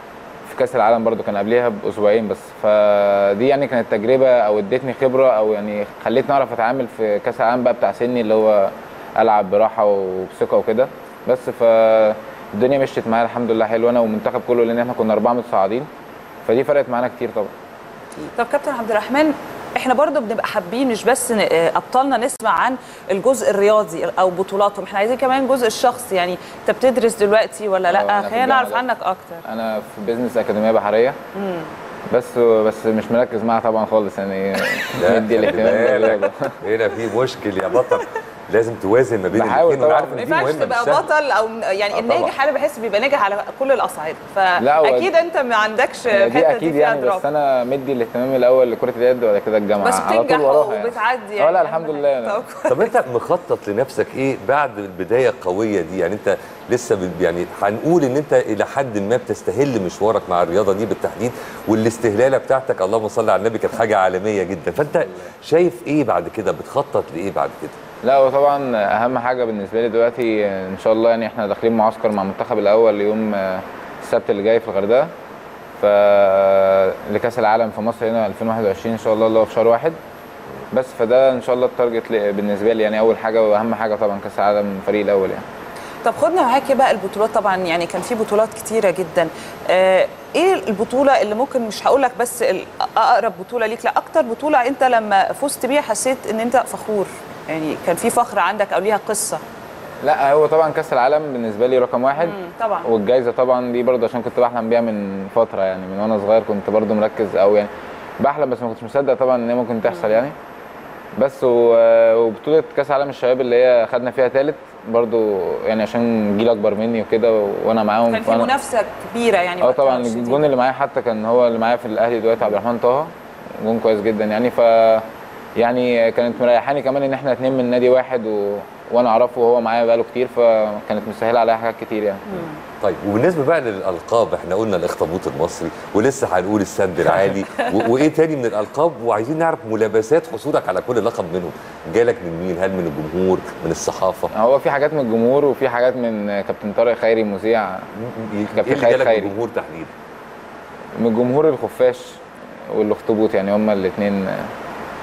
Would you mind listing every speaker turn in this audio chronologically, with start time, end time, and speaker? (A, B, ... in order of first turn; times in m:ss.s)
0:00.4-0:15.9 A
0:16.4-0:17.5 A
0:18.3-0:29.4 B
0:27.9-0:28.8 A
0:29.4-0:31.2 A
0:31.3-0:31.7 B
0:32.1-0:36.6 A
0:35.0-0:41.1 C
0:39.3-0:40.4 A
0:40.2-0:47.2 B
0:41.9-0:42.3 C
0:44.6-0:45.1 A
0:46.1-0:52.4 A
0:49.8-0:52.9 B
0:52.7-1:07.8 C
1:08.0-1:15.1 A
1:15.8-1:20.0 A
1:20.7-1:25.4 A
1:26.0-1:39.4 B
1:40.0-1:50.3 A
1:42.2-1:42.9 B
1:49.8-1:50.2 B
1:51.2-1:58.5 A
1:58.1-2:00.4 B
1:59.6-2:05.0 A
2:05.6-2:12.4 A
2:12.3-2:12.6 B
2:12.8-2:24.3 C
2:24.3-2:27.9 A
2:28.0-2:29.9 C
2:28.5-2:29.3 A
2:31.0-2:34.5 A